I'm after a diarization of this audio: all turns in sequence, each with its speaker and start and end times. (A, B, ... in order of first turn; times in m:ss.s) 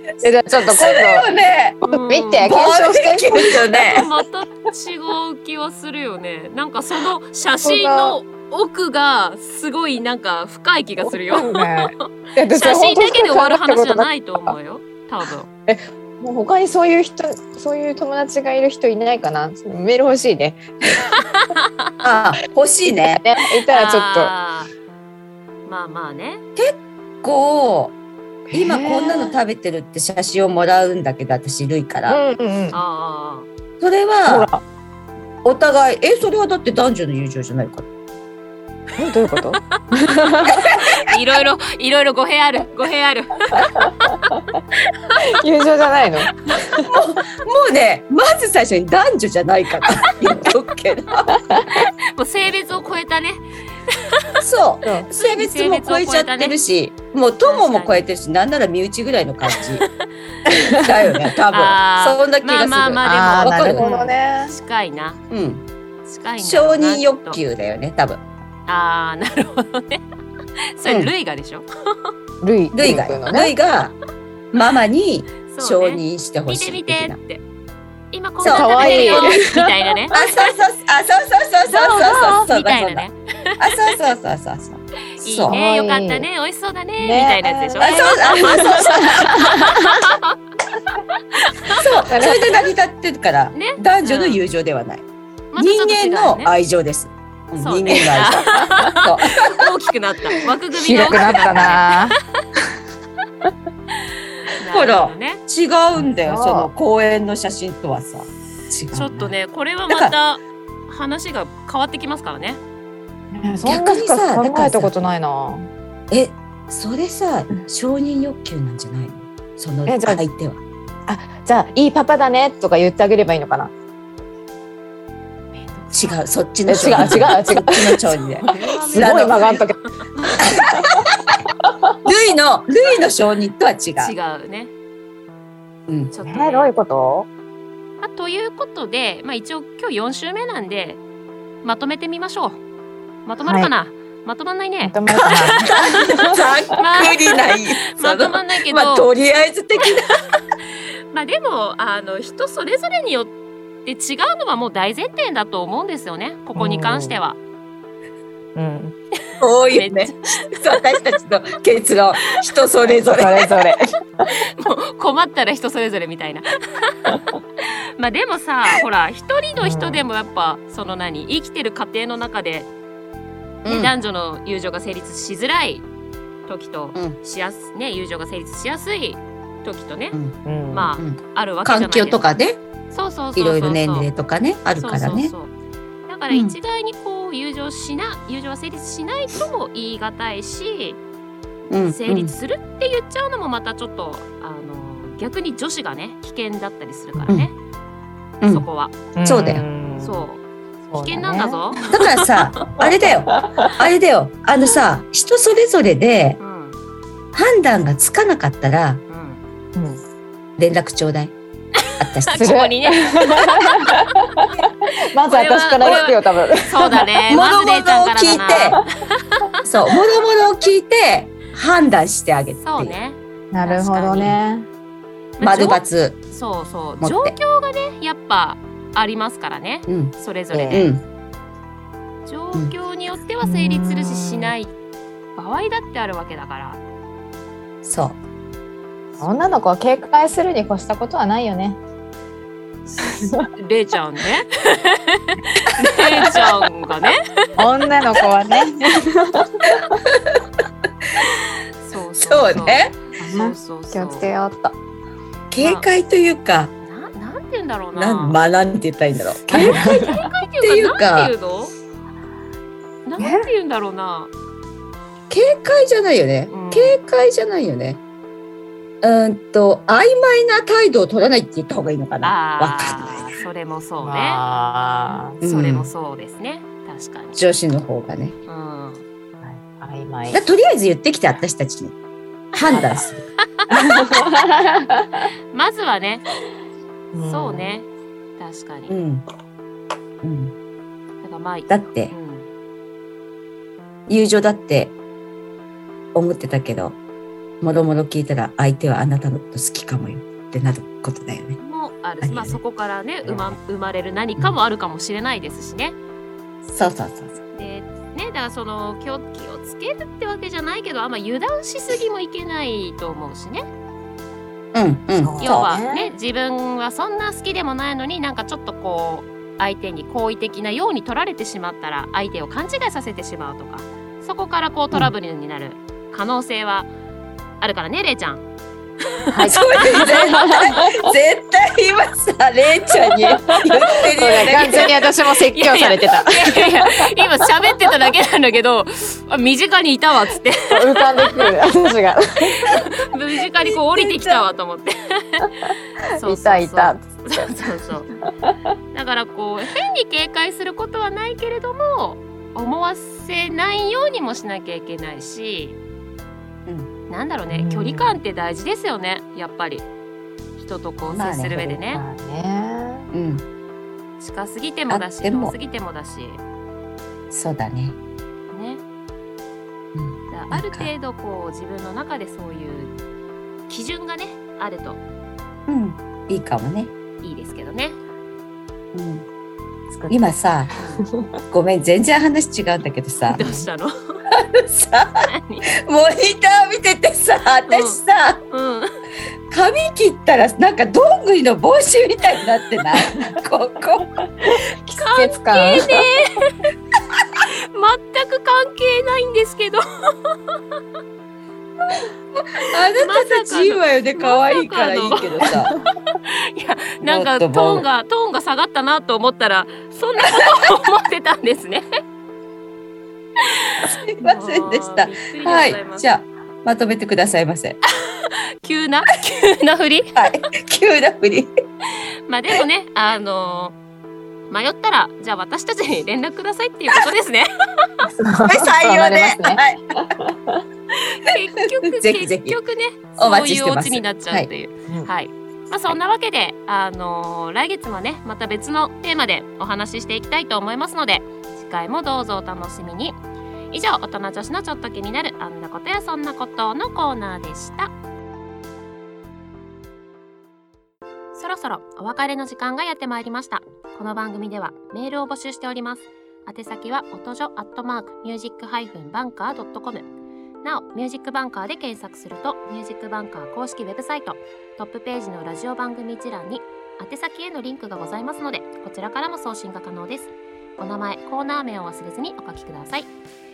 0:00.2-0:01.3 A
0:00.7-0:01.8 B
0:01.8-0:02.5 C
0:01.8-0:04.0 A
0:02.4-0:04.1 B
0:03.9-0:15.5 C
0:07.6-0:08.2 A
0:11.0-0:14.6 A
0:15.7-0:21.1 A
0:21.1-0:21.9 C
0:22.0-0:23.2 B
0:23.1-0:24.3 A
0:23.7-0:24.7 C
0:25.6-0:26.4 C
0:26.6-0:27.9 B
0:28.5-0:29.3 A
0:28.5-0:32.2 B
0:32.1-0:32.8 A
0:32.7-0:33.5 C
0:33.8-0:34.5 B
0:34.2-0:34.6 A
0:35.4-0:37.9 B
0:39.0-0:40.8 A
0:40.6-0:44.4 C
0:43.6-0:44.4 A
0:45.2-0:46.9 A
0:46.9-0:51.4 B
0:51.7-0:54.2 C
0:54.4-0:59.8 B
0:55.1-0:56.5 C
0:57.4-0:58.0 C
1:00.5-1:00.9 A
1:00.7-1:03.9 B
1:01.5-1:05.2 C
1:03.0-1:04.5 A
1:05.3-1:05.6 B
1:06.0-1:07.4 C
1:06.4-1:08.2 B
1:08.7-1:10.0 C
1:10.8-1:11.6 C
1:10.8-1:11.1 B
1:12.4-1:13.5 A
1:12.7-1:14.0 B
1:14.5-1:17.2 B
1:15.4-1:17.4 C
1:18.1-1:20.5 C
1:18.4-1:19.5 B
1:18.4-1:19.7 A
1:20.1-1:23.0 B
1:21.7-1:24.0 C
1:23.6-1:25.6 B
1:25.2-1:30.4 C
1:25.5-1:26.2 A
1:27.0-1:29.9 A
1:27.8-1:29.6 B
1:30.9-1:31.8 C
1:31.7-1:35.0 B
1:32.1-1:32.7 A
1:33.5-1:34.4 C
1:35.5-1:36.5 C
1:35.6-1:39.6 B
1:37.6-1:42.0 C
1:40.7-1:42.2 A
1:44.4-1:45.4 C
1:44.7-1:49.3 B
1:46.0-1:46.7 A
1:48.9-1:52.6 C
1:49.9-1:50.2 B
1:53.3-1:55.7 A
1:53.6-1:54.9 B
1:56.1-2:00.6 B
1:59.8-2:00.2 A
2:01.1-2:03.7 A
2:05.9-2:09.6 B
2:06.7-2:09.8 A
2:08.4-2:10.4 C
2:10.4-2:10.9 A
2:10.4-2:11.0 B
2:11.6-2:11.9 A
2:12.0-2:14.1 B
2:14.0-2:14.7 C
2:16.1-2:16.7 C
2:16.2-2:17.3 A
2:18.0-2:21.0 C
2:21.6-2:22.6 C
2:23.2-2:29.0 C
2:23.4-2:23.7 A
2:24.8-2:26.5 A
2:25.2-2:30.1 B
2:31.1-2:33.3 C
2:33.8-2:37.4 C
2:36.6-2:37.2 A
2:38.6-2:38.9 A
2:39.4-2:43.5 B
2:39.7-2:40.8 C
2:43.1-2:43.8 A
2:44.3-2:52.7 C
2:49.6-2:50.0 A
2:53.6-2:53.9 B
2:53.6-2:55.8 C
2:56.5-3:00.2 C
3:00.1-3:00.4 B
3:00.4-3:00.9 A
3:00.7-3:02.3 C
3:01.0-3:02.6 B
3:02.9-3:04.1 C
3:03.4-3:05.3 B
3:04.8-3:05.5 C
3:06.1-3:11.0 C
3:06.3-3:06.6 B
3:11.7-3:12.3 B
3:11.8-3:17.5 C
3:18.4-3:18.7 B
3:18.5-3:18.9 C
3:19.2-3:20.3 A
3:19.2-3:19.6 B
3:20.0-3:20.4 C
3:20.9-3:21.7 A
3:21.0-3:22.8 C
3:21.9-3:26.4 B
3:22.8-3:23.7 A
3:26.4-3:26.8 C
3:27.3-3:29.0 B
3:29.1-3:29.4 C
3:29.7-3:30.0 A
3:30.6-3:31.3 B
3:31.8-3:34.7 C
3:32.0-3:32.5 B
3:32.3-3:37.1 A
3:35.2-3:39.6 C
3:37.3-3:38.8 B
3:39.6-3:43.0 B
3:42.6-3:44.4 C
3:43.5-3:44.7 A
3:45.4-3:50.9 C
3:45.4-3:46.2 B
3:47.0-3:47.4 B
3:49.9-3:51.0 B
3:50.5-3:50.8 A
3:52.2-3:54.7 C
3:53.4-3:54.5 A
3:55.4-3:56.8 C
3:57.8-3:58.2 B
3:59.2-4:01.8 A
4:03.0-4:03.5 A
4:03.6-4:07.5 C
4:07.6-4:10.0 A
4:09.8-4:10.4 B
4:11.8-4:14.3 C
4:12.2-4:13.0 B
4:13.2-4:14.8 A
4:15.5-4:16.7 B
4:15.6-4:15.8 C
4:16.8-4:18.4 C
4:17.9-4:21.3 B
4:19.5-4:20.2 A
4:19.5-4:21.7 C
4:23.0-4:24.3 C
4:23.2-4:23.5 A
4:25.3-4:28.0 B
4:26.5-4:27.0 C
4:29.0-4:33.3 B
4:32.2-4:34.4 C
4:34.0-4:35.4 A
4:35.4-4:37.4 C
4:35.4-4:35.9 B
4:37.4-4:38.4 B
4:38.5-4:39.0 C
4:39.4-4:40.4 A
4:40.3-4:41.9 B
4:42.5-4:43.2 B
4:43.6-4:44.2 C
4:43.7-4:45.3 A
4:45.5-4:46.2 C
4:47.1-4:47.7 A
4:47.3-4:48.9 C
4:48.9-4:49.2 B
4:50.2-4:50.5 B
4:51.2-4:52.5 C
4:51.7-4:52.1 B
4:54.1-4:54.9 B
4:56.1-4:57.0 B
4:57.6-5:01.6 B
5:01.6-5:06.0 C
5:02.2-5:02.6 B
5:03.2-5:03.6 B
5:06.6-5:07.4 B
5:07.5-5:13.6 C
5:14.7-5:15.7 B
5:15.2-5:16.1 A
5:15.4-5:26.9 C
5:27.6-5:28.4 C
5:29.2-5:30.8 C
5:29.3-5:31.1 A
5:29.5-5:34.9 B
5:33.1-5:37.1 A
5:34.0-5:41.5 C
5:40.7-5:42.7 A
5:42.6-5:48.1 C
5:43.7-5:44.4 B
5:46.2-5:47.2 A
5:48.9-5:55.8 C
5:57.1-5:59.8 C
5:57.5-5:58.2 A
6:00.6-6:02.0 C
6:01.0-6:01.7 B
6:01.6-6:03.1 A
6:03.1-6:03.4 B
6:04.2-6:06.4 C
6:04.9-6:05.6 B
6:07.3-6:08.0 B
6:08.5-6:08.8 C
6:09.9-6:10.9 B
6:10.3-6:12.9 C
6:13.7-6:15.0 C
6:15.7-6:16.9 B
6:17.2-6:18.0 C
6:18.9-6:19.2 B
6:19.9-6:20.2 A
6:20.1-6:20.7 B
6:20.8-6:21.0 C
6:21.5-6:23.4 B
6:23.2-6:24.2 C
6:23.4-6:23.6 A
6:24.3-6:25.2 B
6:25.2-6:25.7 C
6:25.8-6:28.4 B
6:27.7-6:28.0 C
6:28.5-6:28.9 C
6:29.5-6:34.2 B
6:34.4-6:36.0 A
6:35.0-6:36.7 C
6:37.7-6:40.4 C
6:42.3-6:45.8 B
6:42.6-6:51.8 C
6:47.0-6:47.8 B
6:53.4-6:56.0 C
6:53.9-6:57.8 B
6:58.1-7:00.3 C
7:00.2-7:01.5 B
7:02.3-7:03.8 C
7:04.5-7:07.9 C
7:08.2-7:10.6 A
7:08.5-7:09.8 B
7:11.0-7:23.2 C
7:11.9-7:12.6 B
7:13.2-7:14.5 B
7:23.7-7:27.9 C
7:31.3-7:40.1 C
7:40.6-7:53.1 C